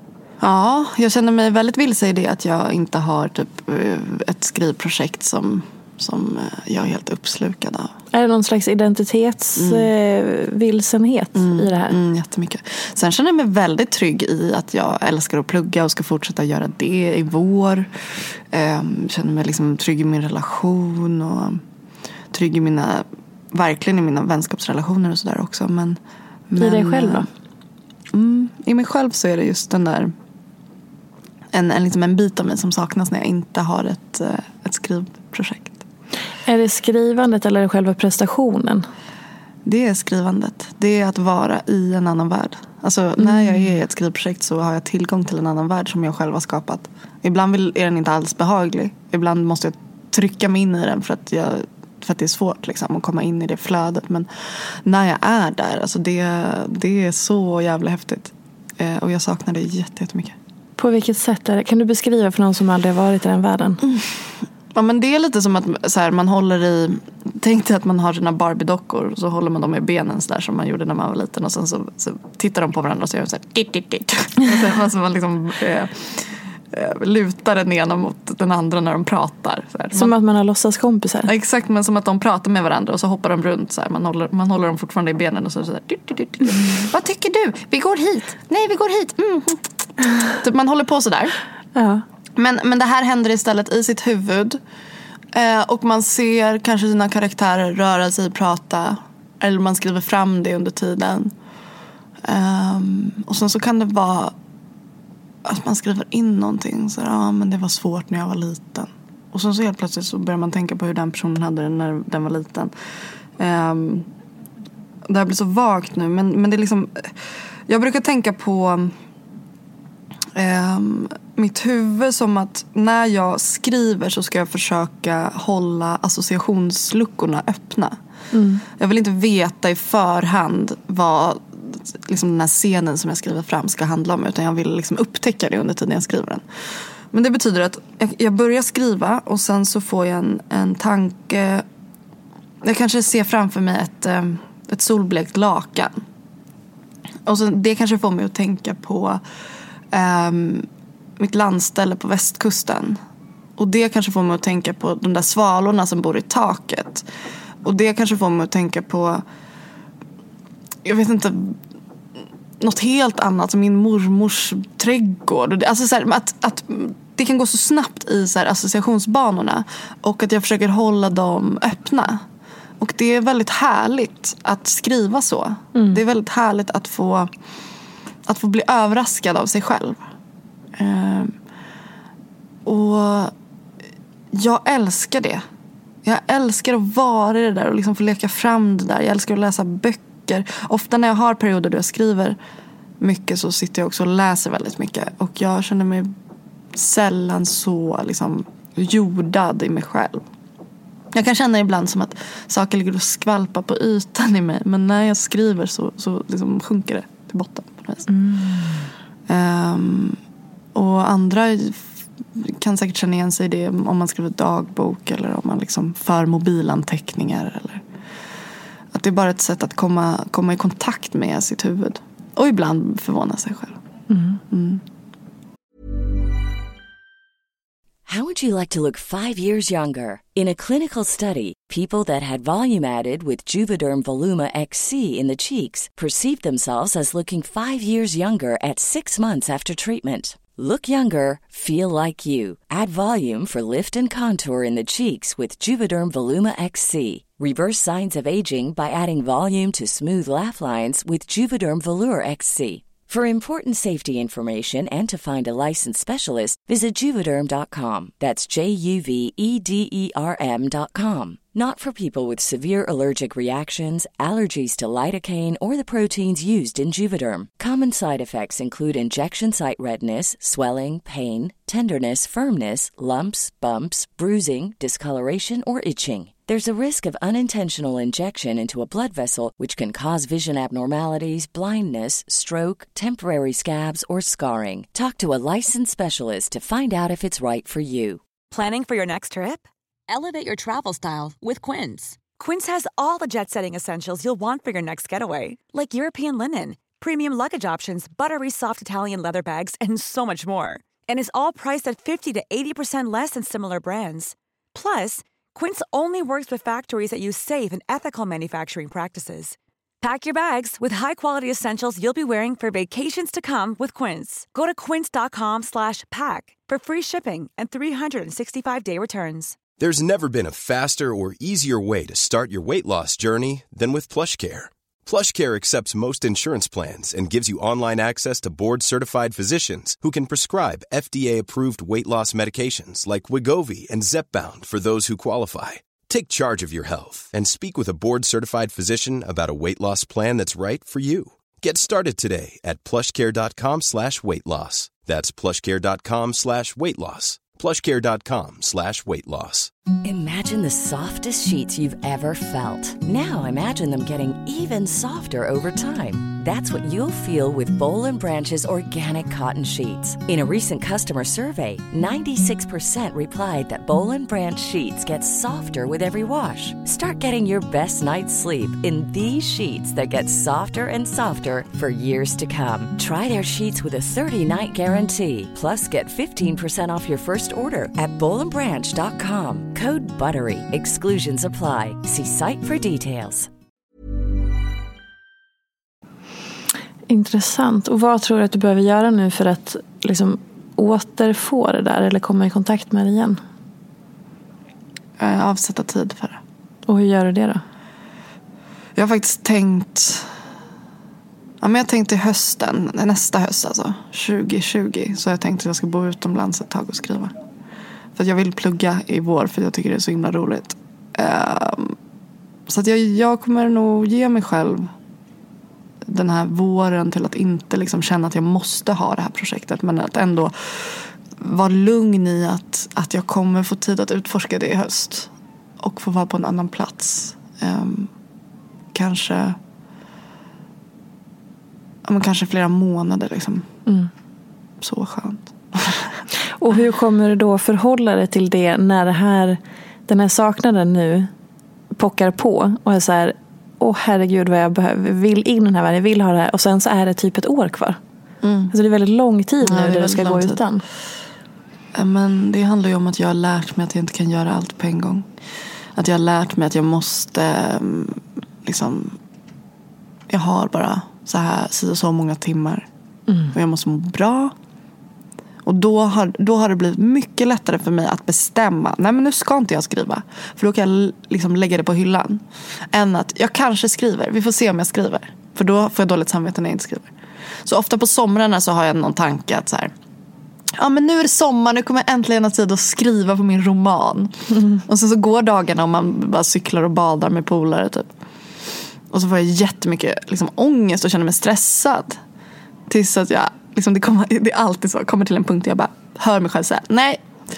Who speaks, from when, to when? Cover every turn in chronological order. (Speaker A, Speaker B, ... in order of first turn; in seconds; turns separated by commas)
Speaker A: 0.4-7.9, Speaker B: 8.1-12.0, Speaker A: 9.6-9.9, Speaker A: 11.3-17.9, Speaker A: 18.5-21.6, Speaker A: 22.3-27.3, Speaker B: 26.6-27.3, Speaker A: 28.1-30.1, Speaker A: 31.5-35.8, Speaker B: 36.5-38.9, Speaker A: 39.6-60.4, Speaker B: 43.2-43.7, Speaker B: 60.8-63.8, Speaker A: 63.8-64.2, Speaker A: 64.7-80.1, Speaker B: 79.9-81.3, Speaker A: 81.3-91.3, Speaker B: 91.8-92.0, Speaker A: 92.4-94.6, Speaker A: 95.3-101.3, Speaker A: 102.2-104.3, Speaker A: 105.4-112.7, Speaker A: 113.4-114.1, Speaker A: 115.1-117.1, Speaker A: 117.7-118.9, Speaker A: 120.3-128.0, Speaker B: 128.3-128.6, Speaker A: 128.7-136.4, Speaker A: 137.1-141.7, Speaker A: 142.6-145.9, Speaker A: 147.3-149.2, Speaker A: 149.9-153.0, Speaker A: 153.6-157.1, Speaker A: 157.6-159.2, Speaker A: 160.8-161.6, Speaker A: 162.6-172.2, Speaker A: 172.8-177.3, Speaker B: 175.8-176.0, Speaker A: 178.3-180.1, Speaker A: 180.8-181.3, Speaker A: 182.7-183.3, Speaker A: 184.3-185.4, Speaker A: 186.0-192.4, Speaker A: 193.0-196.1, Speaker A: 196.7-200.2, Speaker A: 201.1-208.1, Speaker B: 208.1-208.8, Speaker A: 209.3-210.2, Speaker A: 210.8-211.8, Speaker A: 212.4-217.8, Speaker A: 218.9-223.8, Speaker B: 224.1-224.4, Speaker A: 224.5-224.8, Speaker C: 228.1-288.2, Speaker D: 288.5-319.6, Speaker E: 319.8-349.7, Speaker C: 350.0-383.5, Speaker B: 387.1-393.4, Speaker A: 395.2-396.4, Speaker B: 396.9-397.6, Speaker A: 399.0-400.3, Speaker A: 401.6-407.4, Speaker A: 408.2-412.0, Speaker A: 412.7-414.9, Speaker A: 416.1-428.1, Speaker A: 428.9-429.6, Speaker A: 432.1-433.7, Speaker A: 434.8-436.2, Speaker B: 436.6-441.3, Speaker B: 441.9-448.0, Speaker A: 448.4-448.7, Speaker B: 448.7-450.8, Speaker A: 449.6-450.6, Speaker A: 451.9-455.3, Speaker A: 456.0-459.2, Speaker A: 460.3-462.9, Speaker A: 463.5-464.5, Speaker A: 465.6-477.1, Speaker A: 477.6-479.9, Speaker A: 480.8-488.1, Speaker A: 489.1-492.2, Speaker A: 492.9-497.2